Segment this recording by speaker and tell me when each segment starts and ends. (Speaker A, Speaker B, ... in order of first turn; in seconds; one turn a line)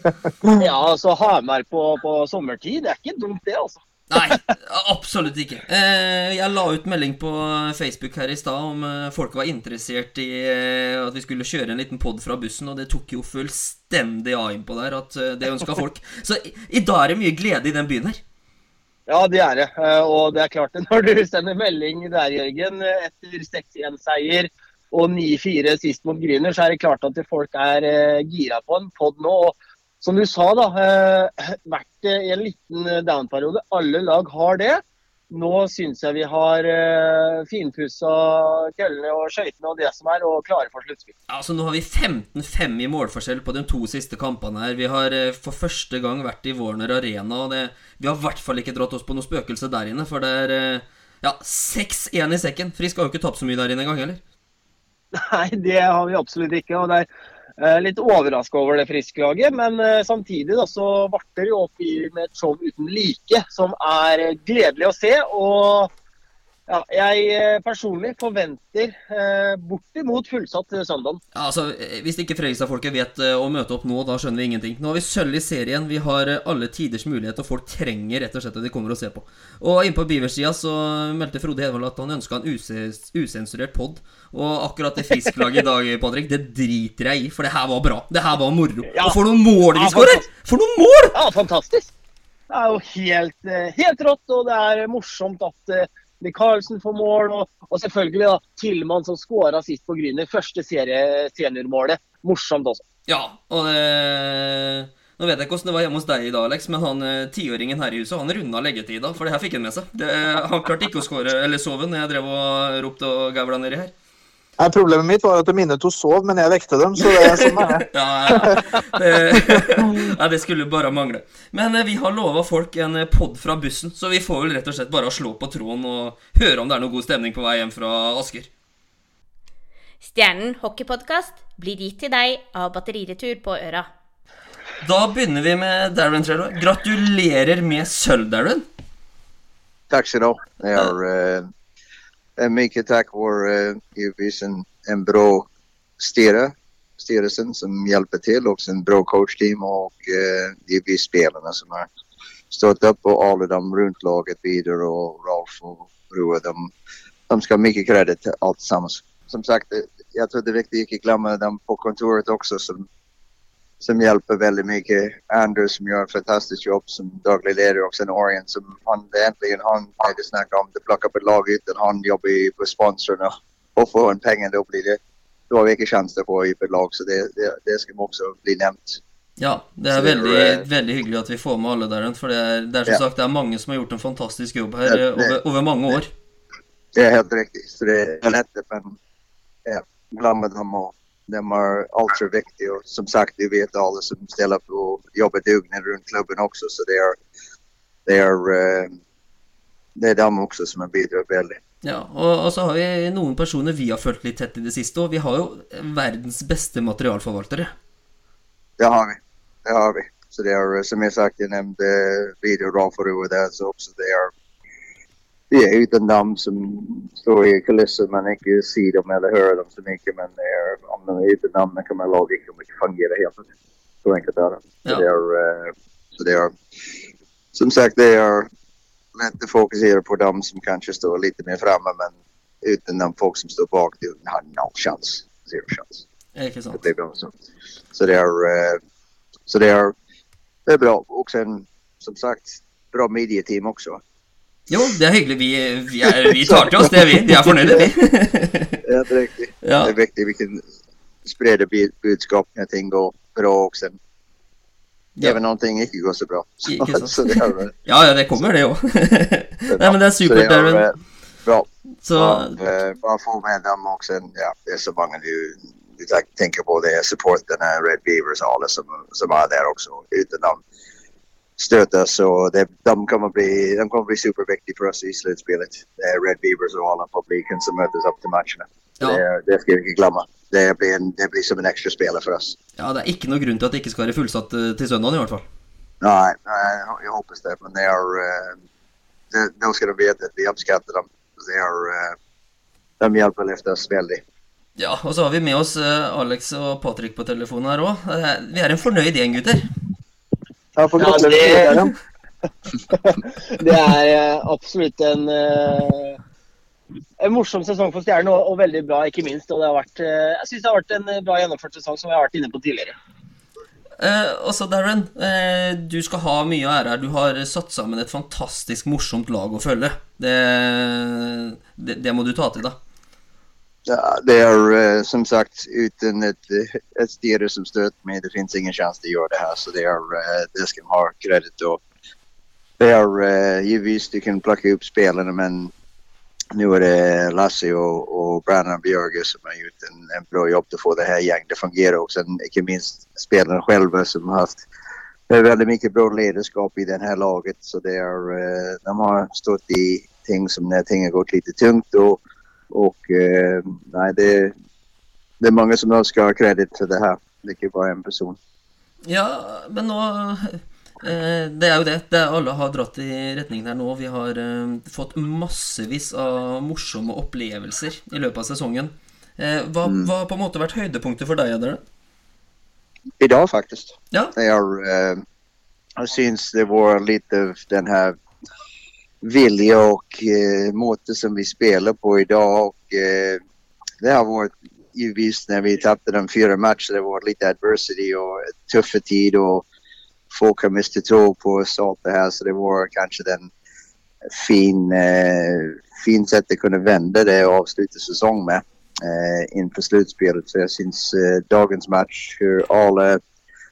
Speaker A: 0.6-4.4
Speaker B: 4.1-18.2
Speaker A: 19.1-41.1
Speaker B: 41.3-54.2
Speaker A: 55.1-57.1
Speaker A: 57.6-65.9
Speaker A: 66.7-71.2
Speaker B: 71.3-91.1
Speaker A: 88.9-89.2
Speaker A: 89.7-90.2
Speaker A: 91.1-91.9
Speaker A: 92.5-102.8
Speaker B: 103.1-113.9
Speaker C: 114.6-118.7
Speaker B: 117.1-128.5
Speaker C: 119.3-119.9
Speaker D: 130.0-133.9
Speaker B: 134.8-138.6
Speaker E: 139.9-141.5
Speaker E: 142.4-145.5
Speaker E: 146.0-151.9
Speaker E: 152.5-156.7
Speaker E: 157.3-162.9
Speaker E: 163.8-179.0
Speaker B: 179.4-186.1
Speaker E: 179.9-180.6
Speaker E: 184.9-185.3
Speaker E: 186.9-189.0
Speaker E: 189.7-197.2
Speaker E: 198.1-198.9
Speaker E: 199.9-201.6
Speaker B: 201.8-207.7
Speaker E: 208.8-214.3
Speaker E: 215.5-223.5
Speaker E: 224.0-226.5
Speaker E: 227.5-228.5
Speaker E: 229.2-236.0
Speaker B: 236.3-236.8
Speaker E: 236.8-237.3
Speaker E: 237.9-238.8
Speaker E: 239.5-239.9
Speaker E: 240.7-244.0
Speaker B: 244.7-248.8
Speaker E: 246.1-247.9
Speaker E: 248.8-250.6
Speaker B: 249.6-249.9
Speaker E: 251.2-254.0
Speaker E: 255.2-257.7
Speaker B: 256.7-260.8
Speaker E: 259.7-260.9
Speaker E: 261.4-270.6
Speaker B: 262.0-262.6
Speaker E: 271.6-282.6
Speaker B: 282.8-285.4
Speaker E: 286.0-288.6
Speaker E: 289.3-292.1
Speaker E: 293.0-294.2
Speaker B: 294.8-299.6
Speaker C: 300.8-301.9
Speaker A: 301.0-301.7
Speaker A: 302.9-306.2
Speaker A: 307.2-312.9
Speaker B: 314.0-322.8
Speaker E: 323.9-331.8
Speaker E: 332.8-335.7
Speaker E: 336.5-344.6
Speaker E: 345.3-352.2
Speaker E: 352.7-354.5
Speaker E: 355.4-358.4
Speaker B: 359.1-371.8
Speaker E: 369.8-370.1
Speaker E: 373.2-375.2
Speaker E: 376.0-378.2
Speaker E: 379.2-383.4
Speaker E: 384.0-389.6
Speaker E: 390.3-393.5
Speaker E: 394.3-403.2